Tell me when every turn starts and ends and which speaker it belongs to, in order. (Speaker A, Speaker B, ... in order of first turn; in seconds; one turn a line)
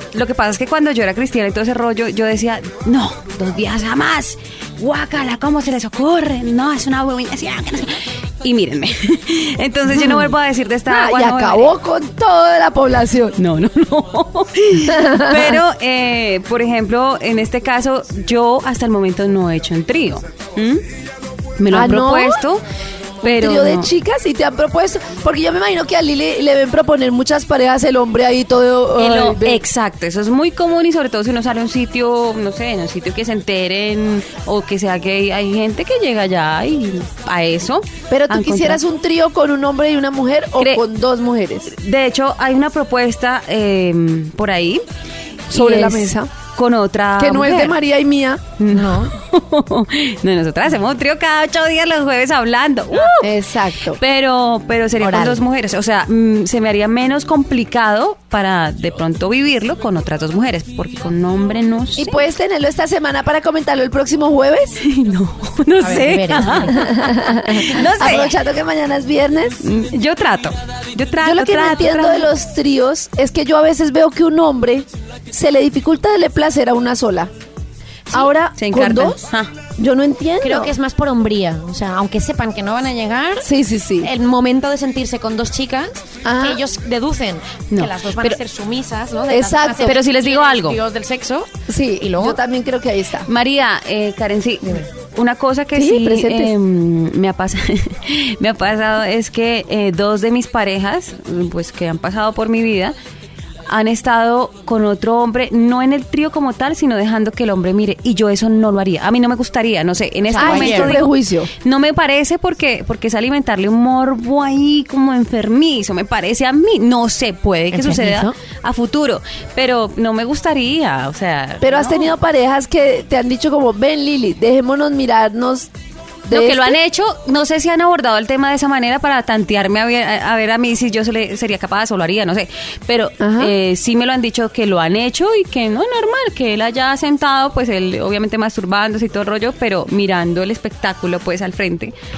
Speaker A: 0.1-11.7
Speaker B: 9.9-10.3
Speaker B: 10.9-13.4
Speaker A: 13.4-20.8
Speaker B: 14.9-15.6
Speaker A: 21.6-22.6
Speaker B: 21.7-22.4
Speaker A: 23.2-23.9
Speaker B: 23.2-29.6
Speaker A: 29.0-38.8
Speaker B: 38.1-41.7
Speaker A: 41.7-44.8
Speaker B: 45.5-46.3
Speaker A: 45.5-47.8
Speaker B: 47.2-48.4
Speaker A: 48.6-53.3
Speaker C: 48.7-49.1
Speaker B: 53.2-54.0
Speaker A: 53.9-62.2
Speaker C: 55.0-55.4
Speaker B: 62.0-64.8
Speaker A: 64.8-68.3
Speaker C: 65.8-66.8
Speaker B: 66.7-69.6
Speaker A: 69.6-72.3
Speaker B: 71.2-77.3
Speaker B: 78.1-79.2
Speaker A: 78.6-79.5
Speaker B: 79.8-80.7
Speaker C: 80.4-83.5
Speaker B: 83.4-84.1
Speaker C: 84.0-92.4
Speaker B: 86.2-86.6
Speaker A: 87.7-88.4
Speaker B: 89.3-90.0
Speaker A: 89.8-90.8
Speaker B: 91.7-93.3
Speaker A: 93.3-102.9
Speaker B: 95.8-96.5
Speaker A: 103.7-111.1
Speaker C: 110.3-111.0
Speaker B: 110.4-111.5
Speaker A: 111.6-122.1
Speaker C: 117.7-118.3
Speaker B: 121.6-125.7
Speaker B: 126.3-126.8
Speaker A: 126.3-141.9
Speaker B: 133.2-133.5